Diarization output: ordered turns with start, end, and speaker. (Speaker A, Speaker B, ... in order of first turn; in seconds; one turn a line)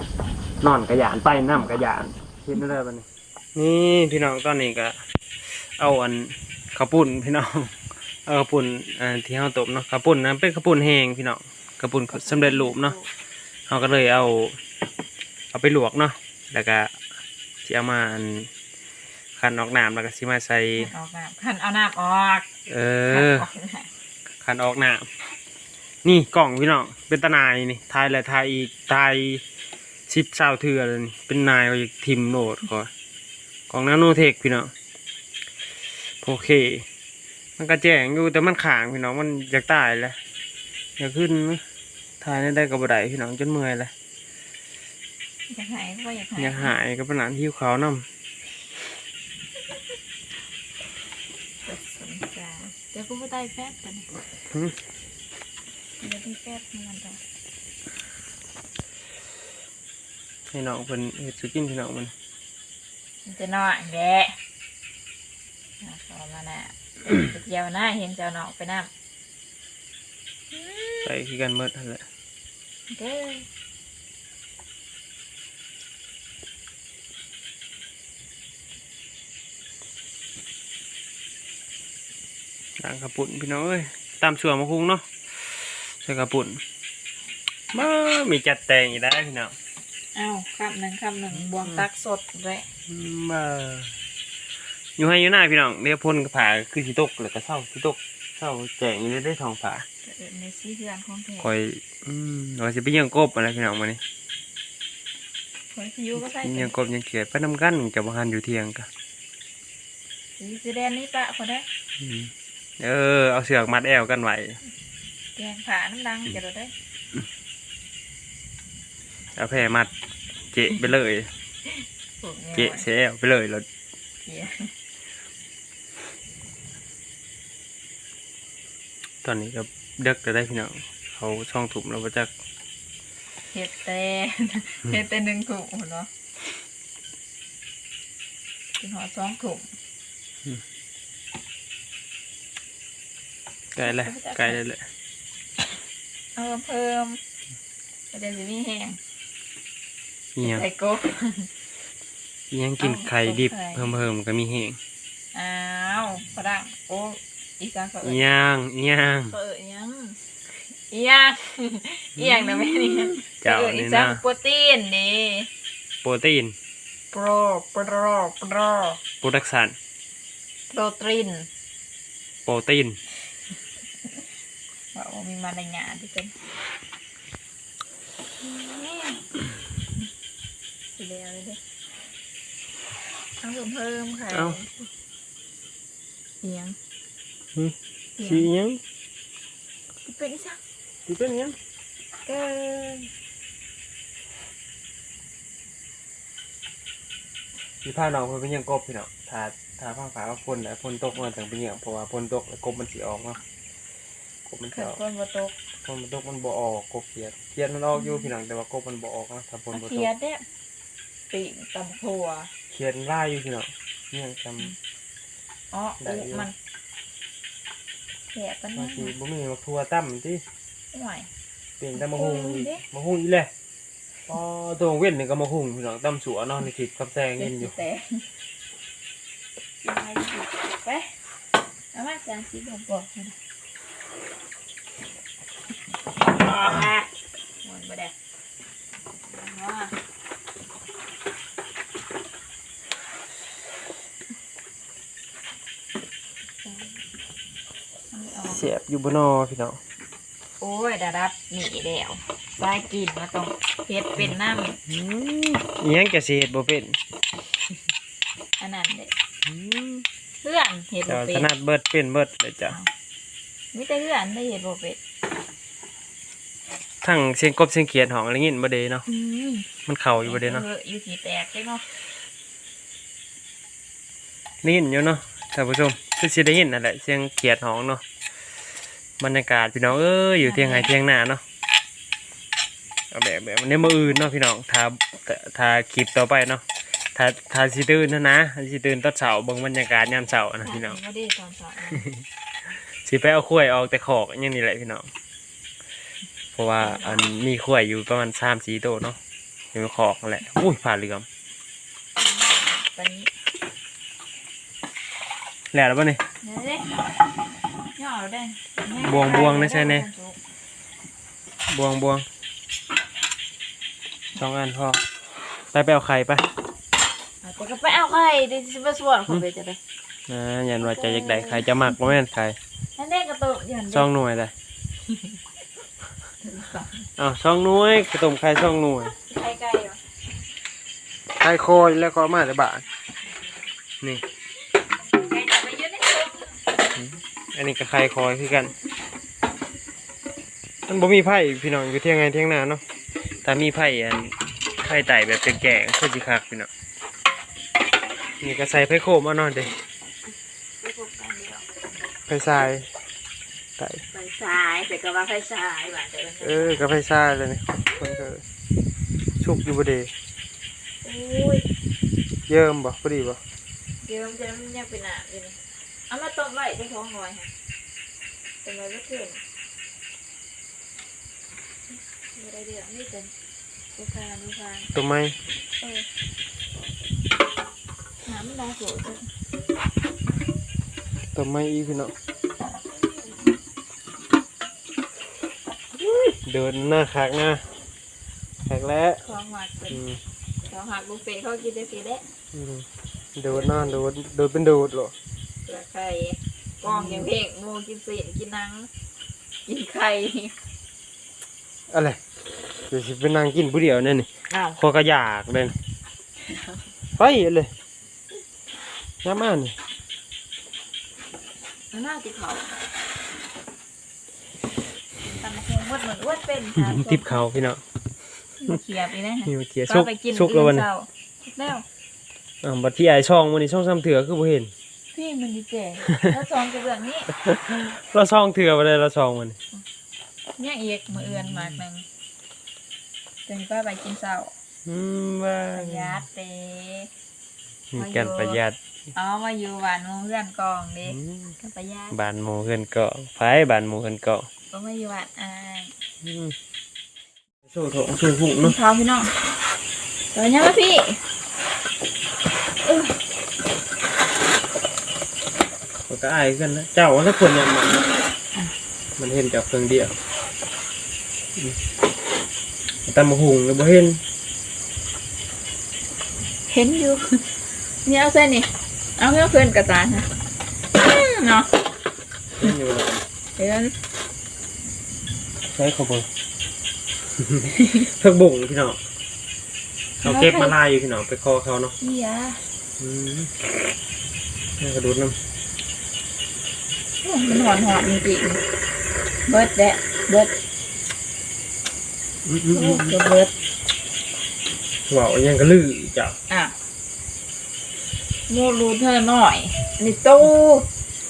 Speaker A: 0.6-13.0
Speaker B: 12.1-13.1
Speaker A: 13.7-14.6
Speaker A: 15.5-16.9
Speaker A: 17.6-18.5
Speaker A: 19.4-20.9
Speaker B: 20.8-22.5
Speaker A: 22.7-23.5
Speaker B: 23.1-23.9
Speaker A: 24.4-25.1
Speaker A: 26.0-29.4
Speaker A: 30.1-32.9
Speaker A: 33.7-34.7
Speaker A: 36.0-36.9
Speaker A: 37.6-40.2
Speaker A: 41.0-41.6
Speaker A: 42.2-43.9
Speaker B: 45.5-46.7
Speaker A: 46.4-48.1
Speaker B: 51.6-54.1
Speaker A: 54.5-54.8
Speaker B: 56.0-57.2
Speaker A: 60.5-62.1
Speaker B: 63.3-64.4
Speaker B: 65.8-68.9
Speaker B: 70.5-71.1
Speaker A: 71.0-72.0
Speaker B: 72.9-73.5
Speaker A: 82.8-86.6
Speaker A: 87.7-89.5
Speaker B: 90.1-92.7
Speaker A: 92.9-93.9
Speaker A: 95.0-99.9
Speaker B: 100.0-101.5
Speaker A: 101.4-104.0
Speaker B: 105.7-106.7
Speaker A: 106.2-108.9
Speaker B: 110.4-111.7
Speaker A: 112.0-114.6
Speaker B: 115.4-116.7
Speaker A: 119.4-119.9
Speaker A: 120.5-121.3
Speaker B: 122.2-122.8
Speaker A: 122.5-123.7
Speaker B: 124.3-124.7
Speaker A: 129.2-132.3
Speaker B: 133.5-136.1
Speaker B: 138.8-139.7
Speaker A: 143.8-144.8
Speaker B: 143.8-144.6
Speaker B: 146.4-147.2
Speaker B: 148.1-149.0
Speaker A: 150.4-150.6
Speaker B: 150.4-151.5
Speaker A: 152.5-154.8
Speaker B: 152.8-154.0
Speaker B: 155.3-158.2
Speaker A: 158.0-159.4
Speaker B: 159.3-165.5
Speaker A: 162.8-164.2
Speaker A: 166.0-166.6
Speaker B: 167.1-169.0
Speaker A: 169.2-169.8
Speaker B: 170.7-171.5
Speaker A: 172.5-173.0
Speaker B: 174.9-176.4
Speaker B: 178.4-179.3
Speaker B: 180.9-181.6
Speaker B: 183.4-184.9
Speaker A: 184.3-184.6
Speaker B: 186.4-186.8
Speaker A: 187.6-188.8
Speaker B: 188.2-188.5
Speaker B: 190.1-190.6
Speaker A: 191.1-191.6
Speaker B: 192.3-193.1
Speaker A: 197.8-203.4
Speaker A: 204.5-205.0
Speaker B: 204.7-205.6
Speaker A: 205.8-210.1
Speaker B: 209.7-210.4
Speaker B: 211.3-212.5
Speaker A: 212.7-214.8
Speaker B: 215.7-216.6
Speaker A: 216.0-216.5
Speaker B: 218.3-219.1
Speaker A: 218.8-220.4
Speaker B: 220.9-221.3
Speaker A: 221.8-223.5
Speaker B: 221.9-222.8
Speaker A: 224.3-227.7
Speaker B: 227.4-228.3
Speaker B: 229.8-231.2
Speaker B: 231.9-233.4
Speaker B: 236.3-237.1
Speaker A: 236.5-236.8
Speaker B: 237.6-238.1
Speaker B: 239.3-239.9
Speaker B: 246.6-247.0
Speaker B: 248.1-248.6
Speaker A: 248.5-249.8
Speaker B: 250.6-254.8
Speaker A: 254.9-257.0
Speaker B: 258.6-259.1
Speaker A: 259.5-260.1
Speaker B: 260.4-261.5
Speaker A: 261.1-262.8
Speaker B: 263.7-265.0
Speaker A: 267.0-269.1
Speaker B: 269.1-269.7
Speaker A: 269.9-270.6
Speaker B: 270.2-271.9
Speaker A: 274.6-278.0
Speaker A: 279.2-281.4
Speaker B: 280.4-280.9
Speaker A: 283.1-286.6
Speaker A: 287.1-291.0
Speaker B: 290.6-292.1
Speaker A: 292.8-295.1
Speaker A: 296.6-299.2
Speaker B: 296.8-297.3
Speaker A: 299.7-301.3
Speaker B: 302.2-303.3
Speaker A: 305.7-306.2
Speaker B: 306.4-307.0
Speaker B: 308.0-310.4
Speaker A: 309.0-310.1
Speaker A: 311.7-312.3
Speaker A: 314.4-315.0
Speaker A: 315.7-316.5
Speaker B: 317.4-319.8
Speaker A: 320.3-322.6
Speaker B: 320.8-321.8
Speaker B: 323.0-324.1
Speaker A: 323.9-324.5
Speaker B: 326.4-327.1
Speaker A: 327.2-329.2
Speaker B: 329.3-330.0
Speaker A: 331.4-332.9
Speaker B: 335.1-336.6
Speaker A: 337.0-338.7
Speaker A: 340.9-346.7
Speaker A: 348.4-349.8
Speaker B: 350.8-351.7
Speaker A: 352.3-352.9
Speaker A: 353.8-354.1
Speaker B: 354.1-356.9
Speaker A: 356.4-358.4
Speaker A: 359.4-360.1
Speaker B: 361.0-361.7
Speaker A: 362.5-363.4
Speaker B: 364.0-367.5
Speaker B: 368.6-369.4
Speaker B: 371.9-373.3
Speaker B: 373.9-374.9
Speaker A: 374.9-375.4
Speaker B: 375.8-376.1
Speaker B: 378.2-379.3
Speaker A: 381.4-382.1
Speaker A: 386.0-387.7
Speaker A: 388.7-389.2
Speaker B: 389.2-390.0
Speaker A: 389.9-390.2
Speaker B: 390.6-392.2
Speaker A: 392.5-395.1
Speaker B: 393.5-394.0
Speaker B: 395.6-398.9
Speaker A: 396.9-397.3
Speaker B: 399.7-400.6
Speaker A: 401.9-402.2
Speaker A: 402.9-405.8
Speaker B: 404.5-404.8
Speaker B: 406.4-406.8
Speaker A: 407.2-407.7
Speaker A: 409.2-409.8
Speaker B: 411.9-412.8
Speaker B: 415.3-417.4
Speaker A: 416.8-417.8
Speaker B: 418.6-421.9
Speaker A: 419.5-420.9
Speaker A: 422.6-424.7
Speaker B: 425.1-427.3
Speaker A: 427.4-429.6
Speaker B: 430.6-432.1
Speaker B: 433.5-434.5
Speaker A: 434.9-436.2
Speaker B: 435.7-437.1
Speaker A: 437.9-438.8
Speaker B: 438.0-438.6
Speaker B: 439.1-442.2
Speaker A: 441.2-441.5
Speaker A: 442.1-444.5
Speaker B: 444.7-445.9
Speaker A: 446.2-446.6
Speaker A: 447.7-448.8
Speaker B: 448.6-449.4
Speaker B: 450.3-451.2
Speaker B: 452.9-453.1
Speaker A: 456.1-458.1
Speaker A: 459.2-460.1
Speaker A: 463.1-464.2
Speaker B: 466.7-467.5
Speaker B: 468.1-470.3
Speaker B: 470.9-471.7
Speaker A: 472.6-473.2
Speaker B: 473.6-473.9
Speaker A: 475.7-476.3
Speaker A: 477.4-479.0
Speaker B: 480.2-480.7
Speaker A: 480.2-481.9
Speaker B: 482.0-482.6
Speaker A: 483.0-483.5
Speaker A: 484.8-485.4
Speaker B: 487.2-488.6
Speaker B: 489.5-490.5
Speaker A: 492.4-493.2
Speaker B: 492.7-493.5
Speaker A: 495.1-496.4
Speaker B: 496.5-496.8
Speaker B: 498.5-500.9